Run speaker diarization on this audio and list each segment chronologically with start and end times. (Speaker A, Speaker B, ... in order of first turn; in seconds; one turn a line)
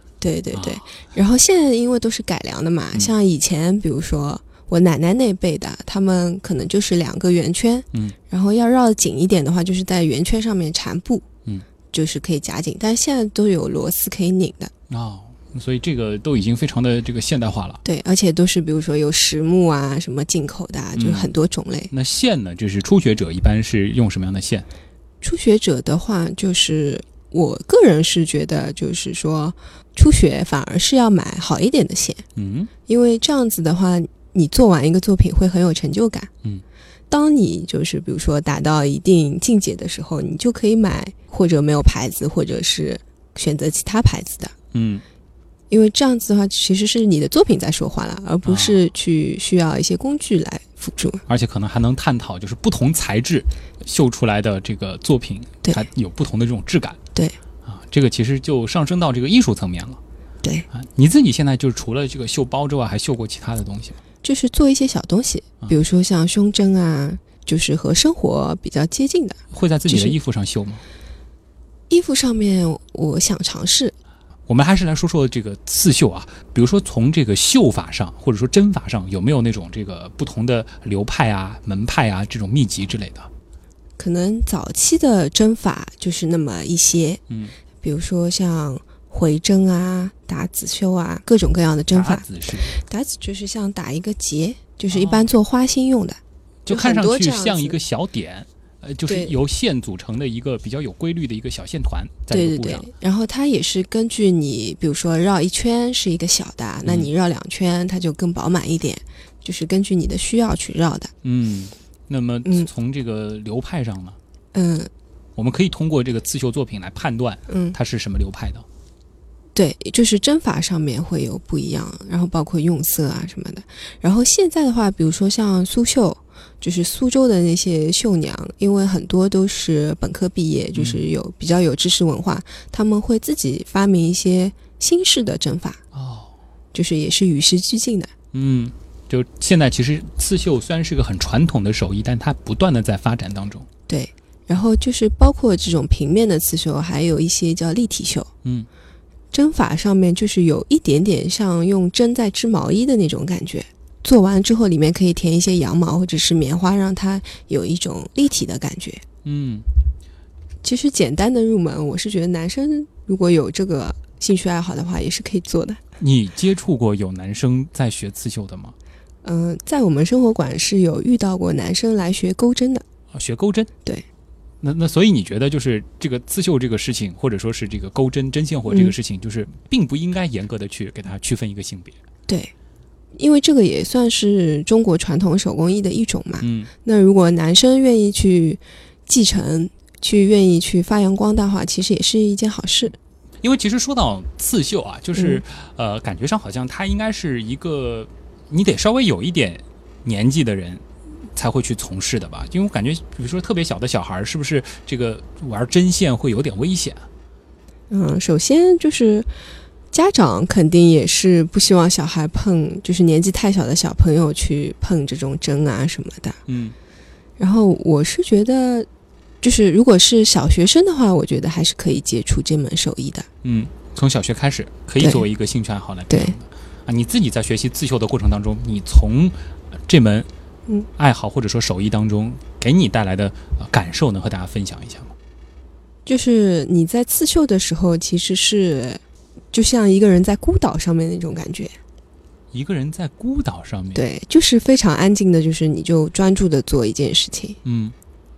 Speaker A: 0.2-11.2
Speaker B: 0.5-0.9
Speaker A: 11.9-14.7
Speaker B: 14.9-17.8
Speaker A: 17.8-21.9
Speaker B: 20.9-21.3
Speaker B: 21.9-24.7
Speaker A: 25.2-32.2
Speaker B: 32.4-32.7
Speaker A: 32.9-36.3
Speaker A: 37.1-44.5
Speaker B: 44.7-45.0
Speaker A: 45.7-51.2
Speaker B: 48.4-48.8
Speaker B: 51.3-57.0
Speaker B: 57.6-60.0
Speaker B: 60.7-64.0
Speaker A: 64.2-70.1
Speaker B: 69.5-70.8
Speaker A: 71.9-73.9
Speaker B: 74.5-83.3
Speaker A: 84.0-87.2
Speaker B: 87.3-87.5
Speaker A: 87.8-97.8
Speaker B: 91.9-92.8
Speaker B: 94.9-95.3
Speaker B: 96.7-102.9
Speaker A: 99.1-99.3
Speaker A: 102.3-111.1
Speaker B: 106.8-107.1
Speaker B: 111.2-114.2
Speaker A: 114.5-114.9
Speaker B: 115.3-118.7
Speaker A: 117.5-117.8
Speaker A: 119.5-135.8
Speaker B: 130.7-131.0
Speaker B: 135.9-136.3
Speaker A: 136.7-138.1
Speaker B: 138.3-143.7
Speaker A: 143.9-148.3
Speaker A: 149.3-159.0
Speaker B: 159.2-159.7
Speaker A: 160.6-165.8
Speaker B: 166.0-168.8
Speaker A: 169.2-172.8
Speaker B: 173.1-173.7
Speaker B: 174.6-181.9
Speaker A: 178.7-178.9
Speaker A: 183.1-192.9
Speaker B: 186.4-186.7
Speaker B: 193.4-207.1
Speaker A: 207.9-209.3
Speaker A: 209.9-216.4
Speaker B: 216.5-216.8
Speaker A: 217.4-218.9
Speaker A: 219.4-223.3
Speaker B: 223.4-230.3
Speaker B: 231.0-235.1
Speaker A: 236.1-241.8
Speaker B: 242.5-244.0
Speaker A: 243.9-247.6
Speaker B: 247.6-247.9